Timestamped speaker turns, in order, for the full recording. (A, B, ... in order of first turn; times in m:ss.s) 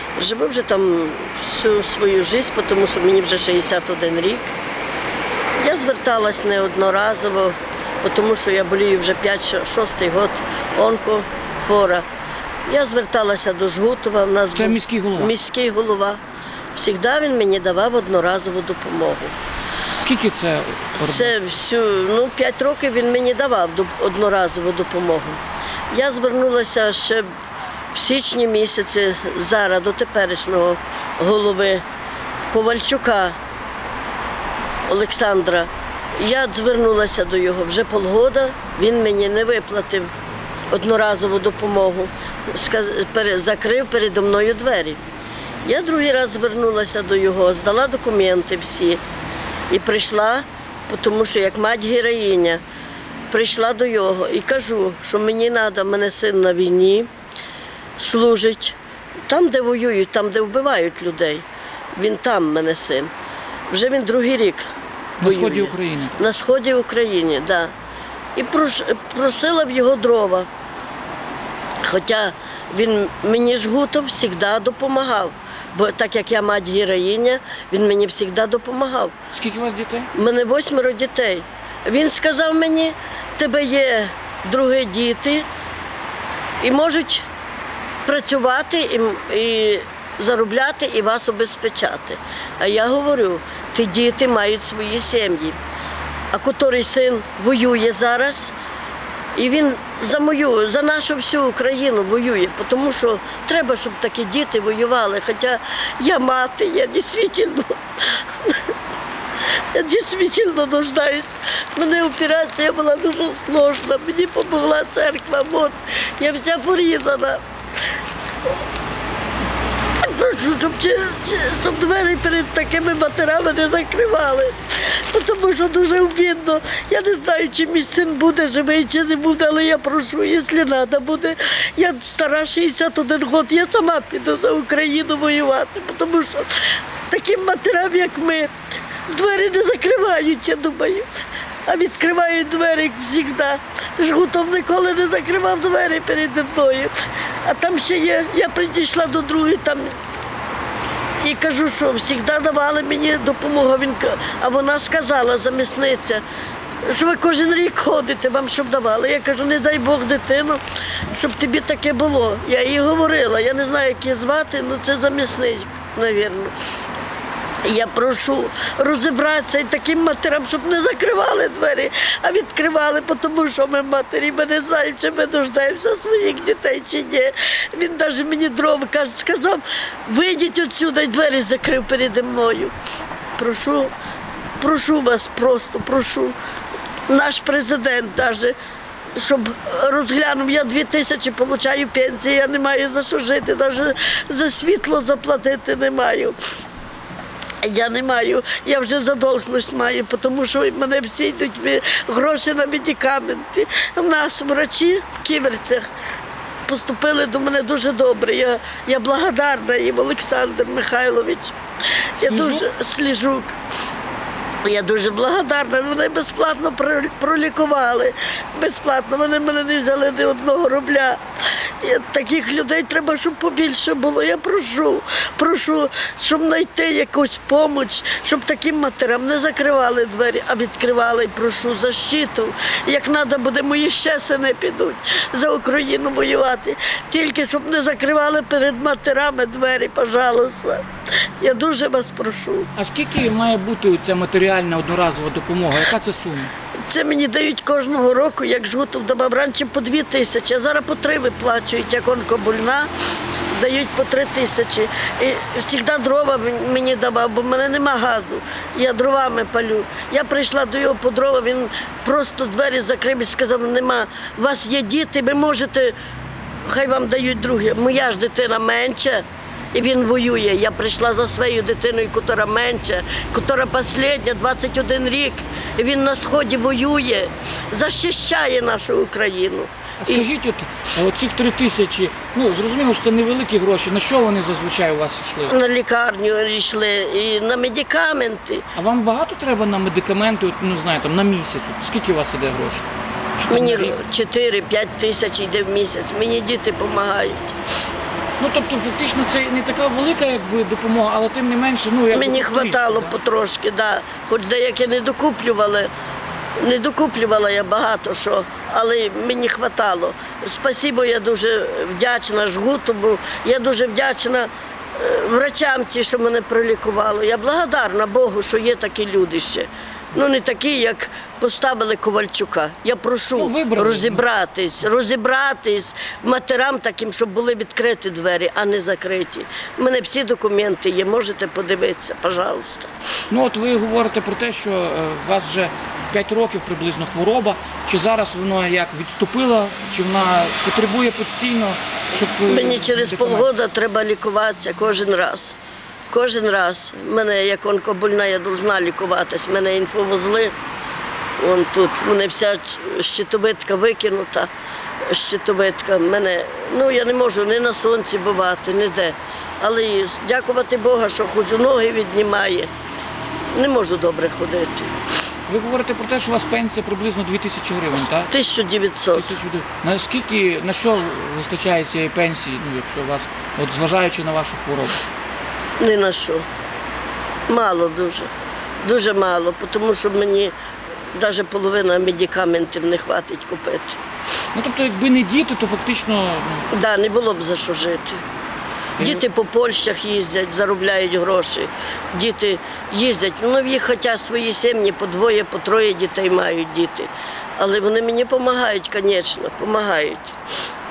0:00.2-0:04.6 A
0:05.6-0:12.1 A
0:12.7-0:16.2 A
0:14.6-0:15.3 B
0:16.8-0:19.4 A
0:20.0-0:21.4 B
0:21.0-0:27.3 A
0:27.9-0:31.8 A
0:32.5-0:33.4 A
0:34.9-0:40.1 A
0:40.7-0:45.0 A
0:45.6-0:49.0 A
0:49.7-0:52.6 A
0:53.3-0:57.1 A
0:58.0-0:58.8 A
0:59.3-1:01.4 A
1:02.0-1:03.1 A
1:03.7-1:04.6 A
1:05.2-1:06.2 B
1:05.2-1:07.7 A
1:08.4-1:10.5 A
1:11.8-1:19.1 A
1:19.3-1:20.1 B
1:20.1-1:25.5 A
1:26.6-1:27.2 A
1:28.1-1:35.6 A
1:36.3-1:38.6 A
1:39.4-1:48.7 A
1:49.7-1:57.4 A
2:00.0-2:04.6 A
2:05.1-2:18.5 A
2:19.1-2:21.1 A
2:21.7-2:30.0 A
2:31.2-2:36.2 A
2:36.9-2:40.6 A
2:41.1-2:46.5 A
2:47.6-3:02.7 A
3:03.4-3:03.9 A
3:04.6-3:06.4 A
3:07.1-3:08.6 A
3:09.2-3:16.4 A
3:17.6-3:25.9 A
3:26.7-3:31.5 A
3:32.2-3:33.6 A
3:32.2-3:32.7 B
3:34.6-4:00.8 A
4:01.4-4:02.7 A
4:02.8-4:06.5 B
4:06.9-4:12.9 A
4:13.5-4:26.0 A
4:26.7-4:40.3 A
4:40.0-4:45.5 B
4:45.5-4:48.7 A
4:48.8-4:52.9 B
4:53.4-4:54.0 B
4:53.5-4:57.6 A
4:58.4-5:03.2 B
5:02.1-5:05.9 A
5:06.6-5:32.9 A
5:23.4-5:24.2 B
5:33.3-5:43.5 B
5:42.5-5:45.6 A
5:46.1-5:50.5 A
5:51.4-5:54.5 A
5:55.1-6:02.7 A
6:03.5-6:05.0 A
6:05.5-6:08.3 B
6:08.2-6:09.3 A
6:09.1-6:15.0 B
6:15.8-6:16.4 A
6:17.5-6:18.3 A
6:18.8-6:20.5 A
6:21.2-6:24.0 A
6:24.6-6:26.7 B
6:26.7-6:28.2 A
6:29.0-6:29.2 B
6:29.0-6:40.4 A